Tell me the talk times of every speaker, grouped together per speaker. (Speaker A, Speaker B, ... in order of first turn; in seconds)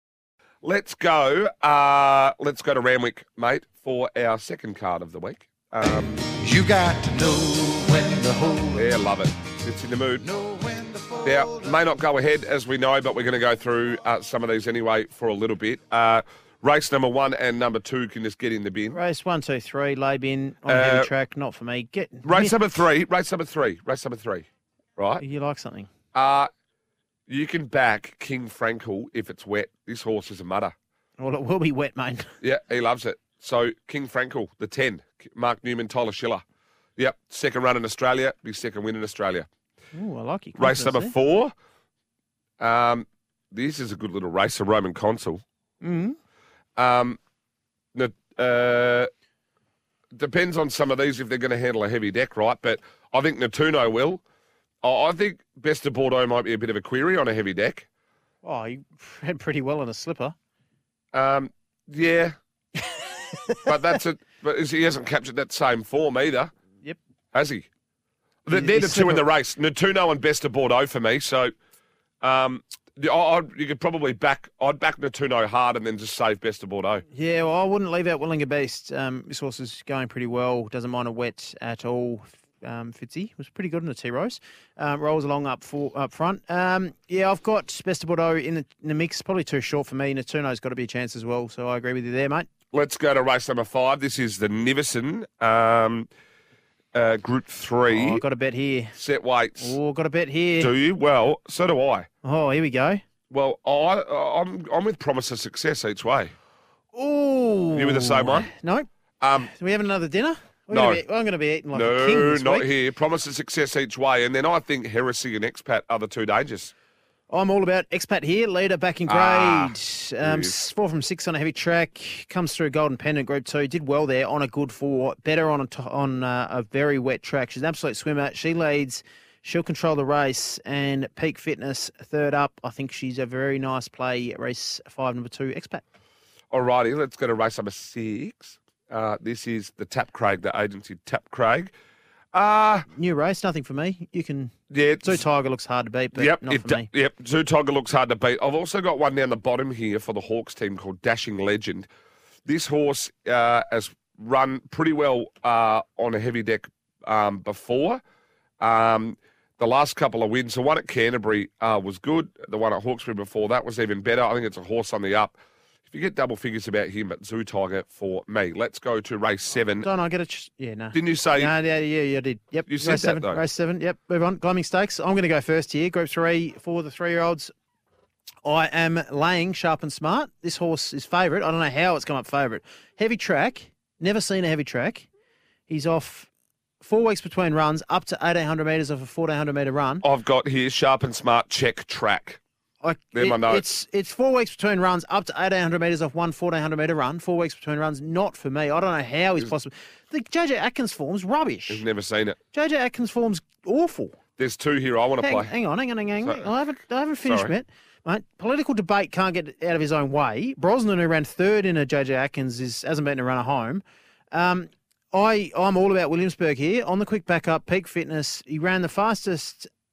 Speaker A: 0.6-6.3, 8.8-10.3, 11.2-19.0, 20.7-21.1, 22.2-24.5, 25.0-25.2, 26.1-26.5, 27.3-30.7, 32.4-36.4, 37.0-39.5, 40.6-41.5, 42.6-45.4, 46.8-47.2, 48.0-49.1, 50.1-54.2, 54.8-57.9, 61.1-62.3, 63.6-66.5, 67.3-67.7, 68.5-71.5, 72.2-77.0, 92.7-96.1, 96.9-98.2, 99.0-99.8, 100.6-102.1, 103.3-106.3, 107.7-108.5, 109.2-109.5, 110.7-111.0, 111.7-116.7, 119.1-120.5, 136.5-141.7, 142.3-142.9, 144.7-145.2, 146.2-151.9, 152.5-158.0, 158.6-165.4, 165.9-169.9, 170.9-171.5, 172.7-173.4, 190.0-192.4, 193.1-193.7, 201.7-202.4, 204.4-205.5, 207.2-207.5
Speaker B: 6.4-8.9, 10.3-11.7
Speaker C: 18.9-22.6, 25.2-25.9, 31.2-32.3, 39.9-41.1, 45.8-46.2, 58.4-60.4, 63.1-63.7, 68.5-69.2, 77.1-92.5, 97.9-99.0, 99.6-100.7, 102.2-103.0, 106.9-112.7, 117.3-135.8, 142.9-146.9, 169.8-177.5, 178.4-185.1, 185.7-186.3, 186.8-190.1, 192.8-201.8, 202.5-204.2, 205.2-219.7